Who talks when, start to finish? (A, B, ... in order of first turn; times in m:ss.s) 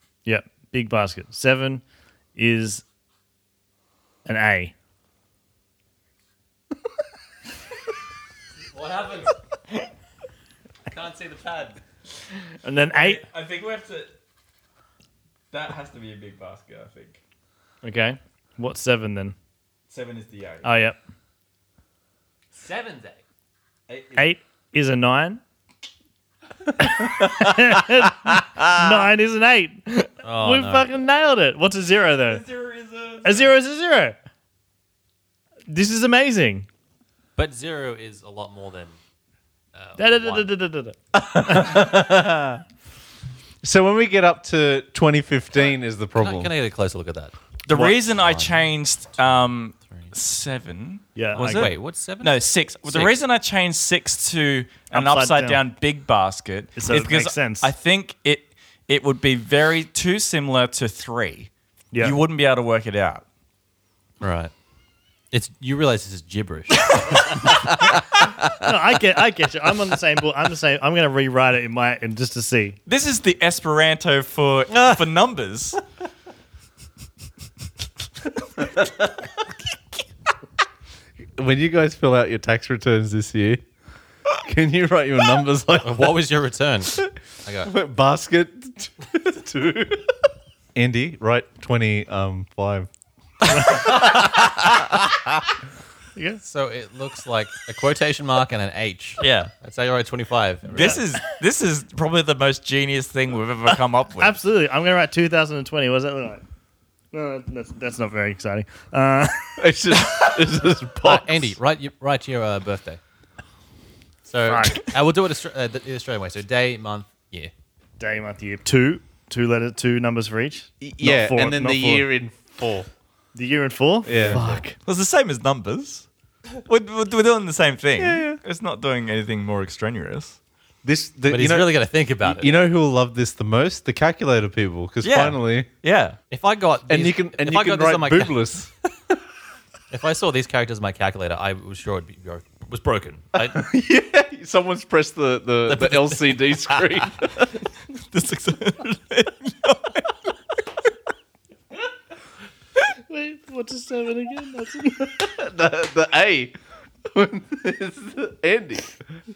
0:00.2-0:01.8 A
0:02.4-0:02.8 A
0:04.2-0:04.7 A
0:08.7-0:09.4 B
0:10.9-0:11.8 B
0:12.6-0:13.2 A
0:12.9-0:14.1 C
0:15.5-0:17.2 C
0:17.8-0:19.3 A
0:19.9-0:20.6 C
0:20.6-0:21.0 A
0:22.5-0:23.2 B
0:23.9-0:24.3 C
0:24.2-0:25.4 A
0:26.7-0:32.4 A
0:30.2-0:30.9 B
0:32.2-0:33.4 C
0:33.2-0:34.2 A
0:35.7-0:36.7 A
0:37.4-0:39.0 B
0:39.7-0:40.5 B
0:40.0-0:41.8 A
0:41.1-0:42.6 D
0:43.6-0:46.5 D
0:46.2-0:47.3 B
0:47.6-1:01.5 C
0:48.1-0:48.6 B
0:51.2-0:51.7 A
0:51.3-0:53.1 B
0:54.9-0:55.6 A
0:56.8-0:57.7 A
1:01.9-1:02.2 A
1:02.0-1:03.2 C
1:04.2-1:04.5 B
1:05.3-1:08.2 B
1:06.8-1:07.2 C
1:08.2-1:12.8 A
1:12.9-1:15.8 C
1:14.7-1:15.1 B
1:21.4-1:23.6 D
1:24.4-1:26.2 D
1:25.8-1:27.7 B
1:27.6-1:30.1 D
1:30.7-1:32.9 D
1:33.5-1:34.1 A
1:36.2-1:36.4 A
1:36.4-1:41.0 B
1:39.2-1:39.5 C
1:40.7-1:41.0 A
1:40.7-1:44.3 C
1:44.2-1:46.4 A
1:47.1-1:49.6 A
1:49.6-1:51.5 D
1:51.0-1:53.0 B
1:54.3-1:57.5 B
1:54.4-1:54.9 A
1:58.0-2:02.0 A
2:00.8-2:02.9 D
2:03.3-2:04.8 A
2:04.0-2:04.6 D
2:04.8-2:06.0 C
2:06.6-2:10.4 C
2:08.0-2:08.4 D
2:10.8-2:15.7 D
2:11.3-2:12.5 B
2:15.0-2:16.2 C
2:16.3-2:18.4 B
2:16.9-2:18.7 D
2:19.9-2:23.6 B
2:23.4-2:27.5 D
2:25.7-2:26.8 B
2:28.1-2:30.1 C
2:33.1-2:35.2 A
2:35.1-2:39.0 D